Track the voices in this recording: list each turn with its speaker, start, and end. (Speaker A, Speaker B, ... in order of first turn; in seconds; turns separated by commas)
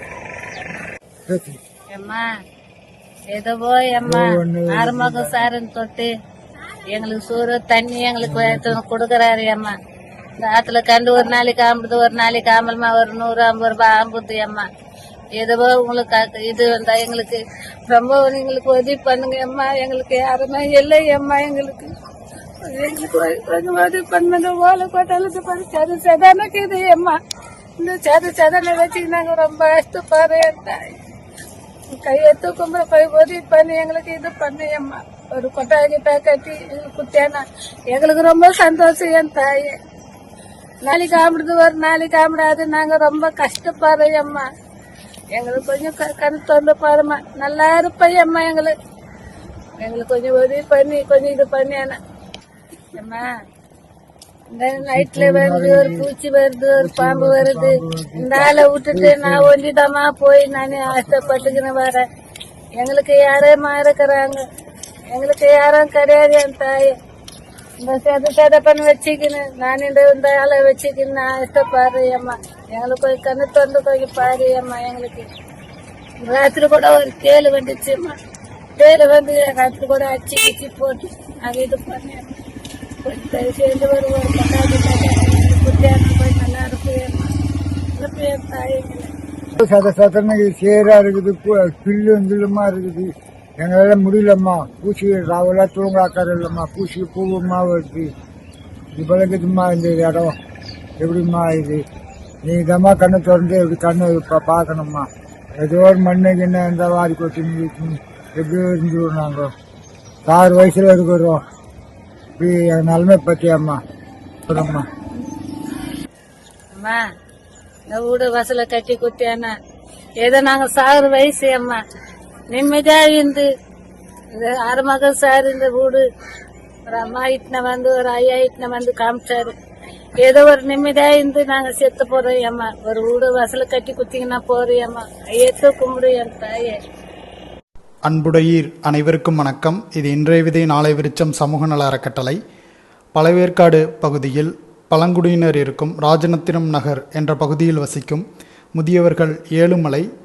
Speaker A: 1.3-1.6, Speaker B: 1.9-2.3, Speaker B: 3.3-6.1, Speaker A: 4.0-5.3, Speaker B: 6.9-9.8, Speaker A: 8.3-8.7, Speaker B: 10.4-14.7, Speaker B: 15.4-21.9, Speaker B: 22.7-27.2, Speaker B: 27.8-31.0, Speaker B: 32.0-39.8, Speaker B: 40.8-44.5, Speaker B: 45.3-48.8, Speaker B: 49.8-52.0, Speaker B: 53.0-53.3, Speaker B: 54.5-62.0, Speaker A: 54.8-56.1, Speaker A: 56.8-59.5, Speaker A: 60.9-61.5, Speaker B: 62.8-64.4, Speaker B: 65.1-66.9, Speaker B: 67.8-75.3, Speaker B: 76.2-78.2, Speaker B: 78.8-82.3, Speaker B: 83.0-87.3, Speaker B: 88.0-89.1, Speaker A: 89.6-98.1, Speaker A: 99.0-100.3, Speaker A: 101.0-101.8, Speaker A: 102.4-105.1, Speaker A: 105.6-109.5, Speaker A: 110.3-111.4, Speaker A: 112.4-113.8, Speaker A: 114.5-114.9, Speaker B: 116.8-117.0, Speaker B: 117.9-119.5, Speaker B: 120.2-121.8, Speaker B: 122.5-123.5, Speaker B: 124.3-126.0, Speaker B: 126.9-129.6, Speaker B: 130.2-136.8, Speaker C: 138.1-142.4, Speaker C: 143.2-150.1